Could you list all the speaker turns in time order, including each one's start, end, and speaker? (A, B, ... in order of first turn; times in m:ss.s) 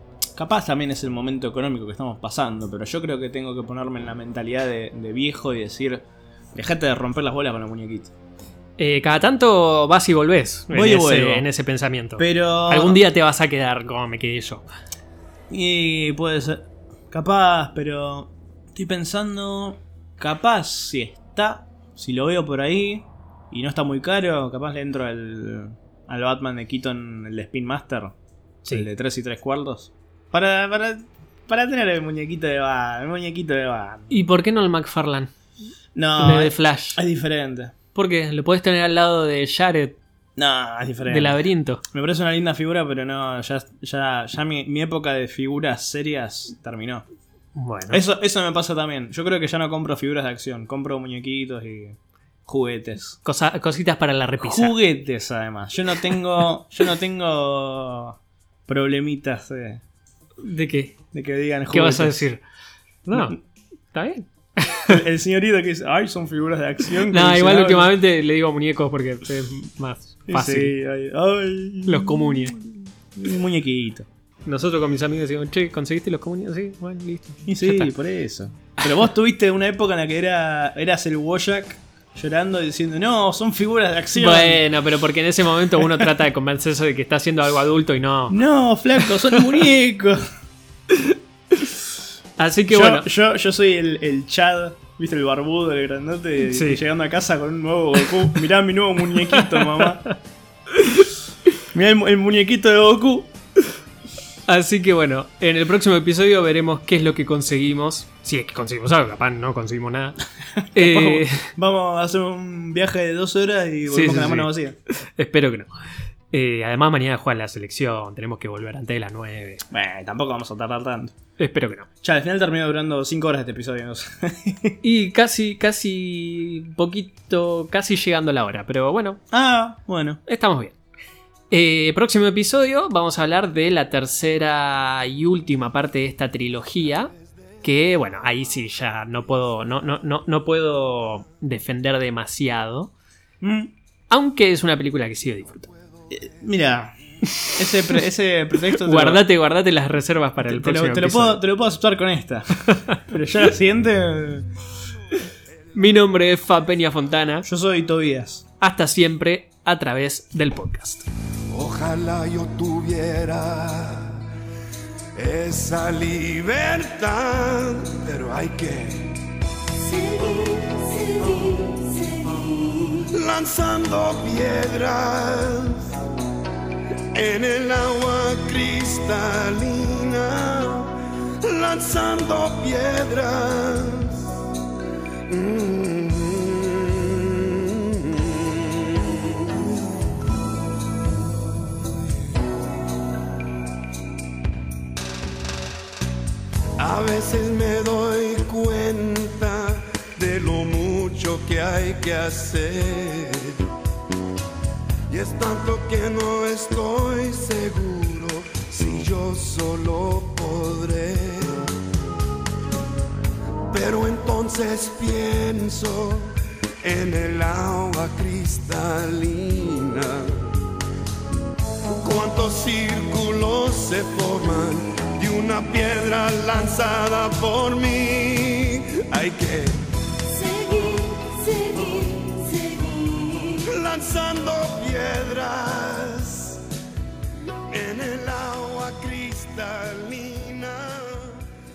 0:00.3-0:08.1 A
0:08.8-0:14.6 B
0:10.7-0:11.5 A
0:12.2-0:13.0 A
0:15.5-0:34.1 A
0:34.1-0:35.3 B
0:35.9-0:37.7 A
0:36.2-0:37.0 B
0:37.9-0:40.0 B
0:40.4-0:47.0 A
0:41.0-0:41.8 B
0:47.5-0:48.0 B
0:47.9-0:53.2 A
0:53.2-0:54.7 B
0:54.4-0:59.8 A
1:00.4-1:01.0 B
1:01.1-1:02.2 A
1:01.7-1:02.4 B
1:03.0-1:03.4 B
1:03.9-1:05.0 B
1:04.9-1:07.9 A
1:07.1-1:10.7 B
1:10.3-1:14.1 A
1:11.8-1:12.6 B
1:14.4-1:17.9 B
1:17.4-1:24.6 A
1:24.1-1:28.4 B
1:28.3-1:30.2 A
1:32.4-1:33.1 B
1:32.7-1:40.1 A
1:36.4-1:36.8 B
1:39.6-1:39.9 B
1:41.7-1:43.3 A
1:44.4-1:50.2 B
1:50.7-1:51.5 B
1:50.8-1:54.8 A
1:53.9-1:55.7 B
1:56.3-1:59.6 B
1:59.7-2:01.1 A
2:01.4-2:01.9 B
2:02.0-2:04.8 A
2:04.8-2:09.2 B
2:09.3-2:10.2 A
2:10.3-2:10.8 B
2:11.5-2:17.1 B
2:17.6-2:22.9 B
2:23.4-2:23.7 A
2:24.1-2:25.7 B
2:26.1-2:29.2 A
2:28.7-2:31.4 B
2:30.5-2:34.5 A
2:32.7-2:33.0 B
2:35.7-2:37.4 B
2:37.4-2:38.4 A
2:38.6-2:41.0 B
2:41.5-2:44.2 C
2:45.1-2:49.2 C
2:49.8-2:53.0 D
2:53.0-2:56.0 C
2:57.1-3:04.3 C
3:05.3-3:09.6 C
3:16.8-3:23.6 C
3:25.1-3:31.7 C
3:33.7-3:40.5 C
3:42.0-3:49.8 C
3:50.2-3:53.6 D
3:53.6-3:56.6 C
3:57.7-4:01.4 C